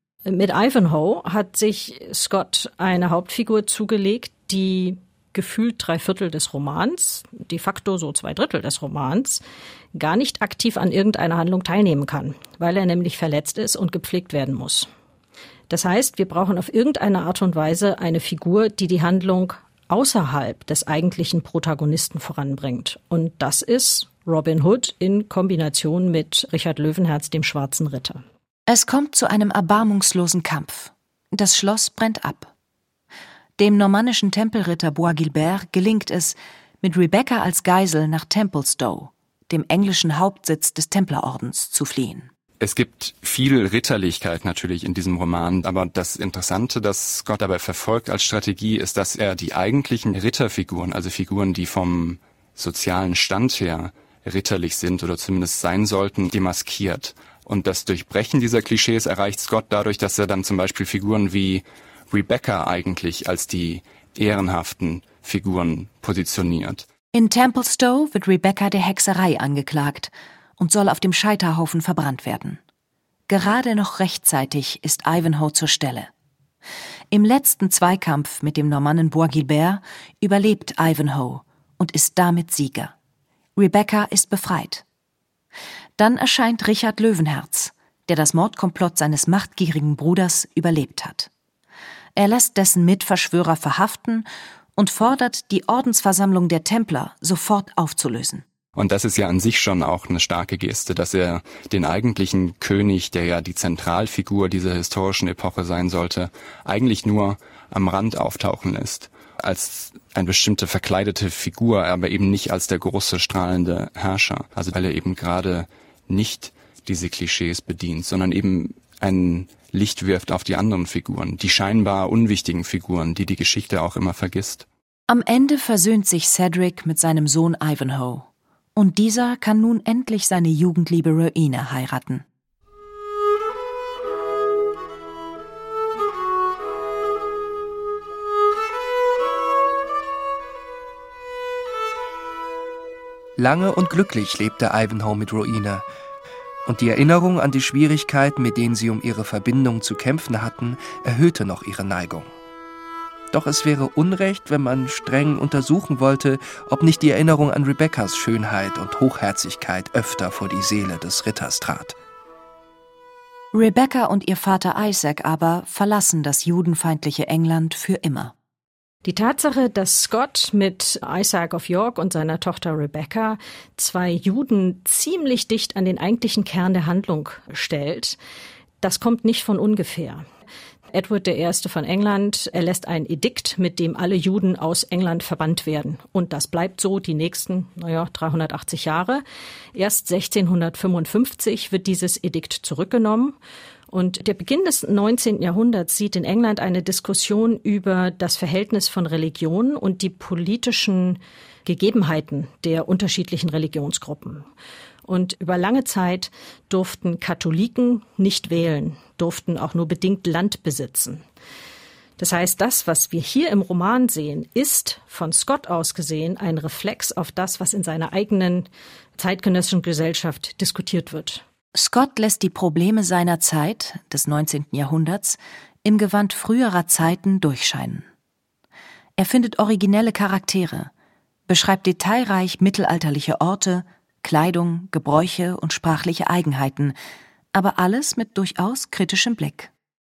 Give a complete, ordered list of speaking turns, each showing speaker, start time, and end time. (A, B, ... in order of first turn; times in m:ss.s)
0:00.3-0:09.4 A
0:09.9-0:14.9 A
0:15.7-0:28.2 A
0:28.7-0:32.5 B
0:33.6-0:42.3 B
0:42.6-1:06.9 C
1:07.1-1:12.6 B
1:13.3-1:16.1 B
1:17.1-1:22.9 B
1:23.6-1:24.8 B
1:26.0-1:31.3 B
1:32.2-1:34.3 B
1:34.8-1:38.4 B
1:38.8-2:04.7 C
2:05.1-2:12.2 B
2:23.4-2:25.8 D
2:26.7-2:32.3 D
2:33.3-2:42.0 D
2:43.5-2:48.3 B
2:49.0-2:58.2 A
2:58.8-3:00.2 A
3:00.9-3:09.2 A
3:09.7-3:13.4 A
3:13.9-3:24.5 A
3:25.1-3:31.2 A
3:32.2-3:41.4 A
3:41.7-3:48.1 B
3:49.2-3:50.9 B
3:51.5-3:57.0 B
3:57.5-3:59.7 B